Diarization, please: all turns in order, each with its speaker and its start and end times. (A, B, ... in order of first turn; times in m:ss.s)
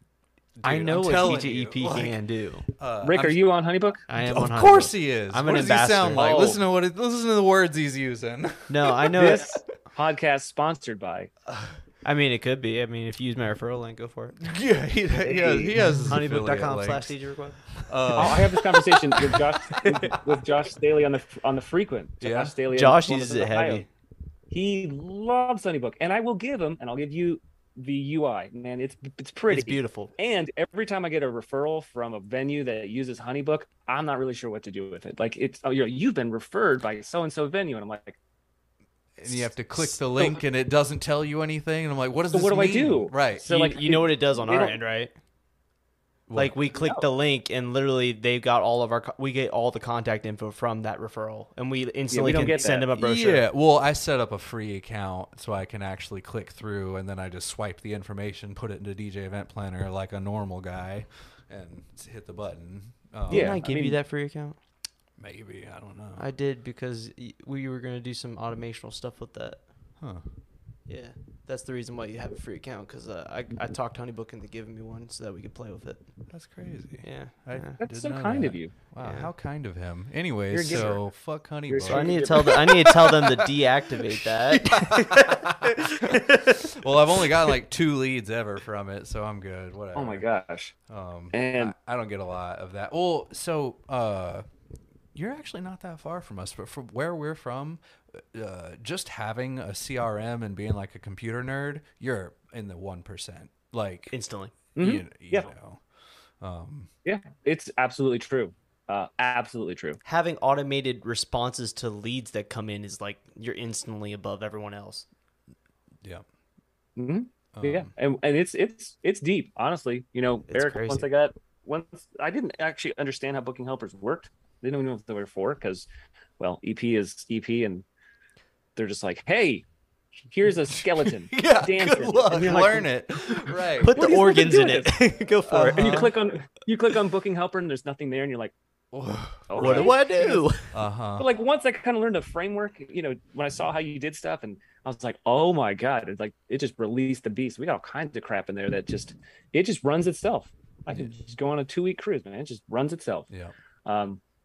0:00.6-0:03.4 A
0:00.6-0:02.7 B
0:03.0-0:04.0 C
0:04.1-0:06.4 B
0:04.1-0:09.1 A
0:06.1-0:06.6 C
0:08.7-0:09.5 B
0:09.1-0:11.3 C
0:12.0-0:14.4 B
0:14.4-0:17.2 A
0:15.2-0:16.0 C
0:16.1-0:18.3 B
0:17.8-0:20.4 A
0:18.1-0:23.8 C
0:22.2-0:22.5 A
0:22.7-0:23.9 B
0:24.5-0:38.2 C
0:29.5-0:30.1 B
0:39.2-0:43.8 A
0:42.3-0:44.8 C
0:43.5-0:45.1 B
0:46.3-0:46.6 A
0:46.3-0:53.4 B
0:46.8-0:47.0 C
0:52.1-0:52.9 C
0:52.9-1:03.6 A
1:03.3-1:04.0 C
1:03.3-1:04.6 B
1:05.2-1:06.2 A
1:06.2-1:09.7 B
1:10.0-1:10.3 A
1:10.9-1:16.3 B
1:16.3-1:23.5 A
1:17.0-1:17.8 B
1:17.8-1:18.7 C
1:19.0-1:19.3 B
1:20.5-1:22.6 C
1:21.9-1:26.6 B
1:24.2-1:30.2 A
1:29.9-1:30.7 C
1:30.9-1:34.4 A
1:31.3-1:31.7 C
1:35.1-1:44.1 A
1:44.1-1:44.5 B
1:44.8-1:45.5 C
1:44.8-1:45.8 A
1:46.4-1:46.9 A
1:47.0-1:50.0 C
1:50.0-1:55.0 B
1:57.0-2:05.9 C
1:57.5-1:57.9 A
2:00.5-2:01.0 B
2:06.4-2:07.8 C
2:08.8-2:09.6 C
2:10.2-2:18.5 C
2:10.8-2:13.9 A
2:13.8-2:16.1 B
2:15.5-2:16.1 A
2:18.9-2:19.9 A
2:19.5-2:20.4 C
2:19.6-2:20.7 B
2:20.7-2:21.2 A
2:21.2-2:33.3 C
2:33.3-2:33.6 A
2:33.8-2:34.2 C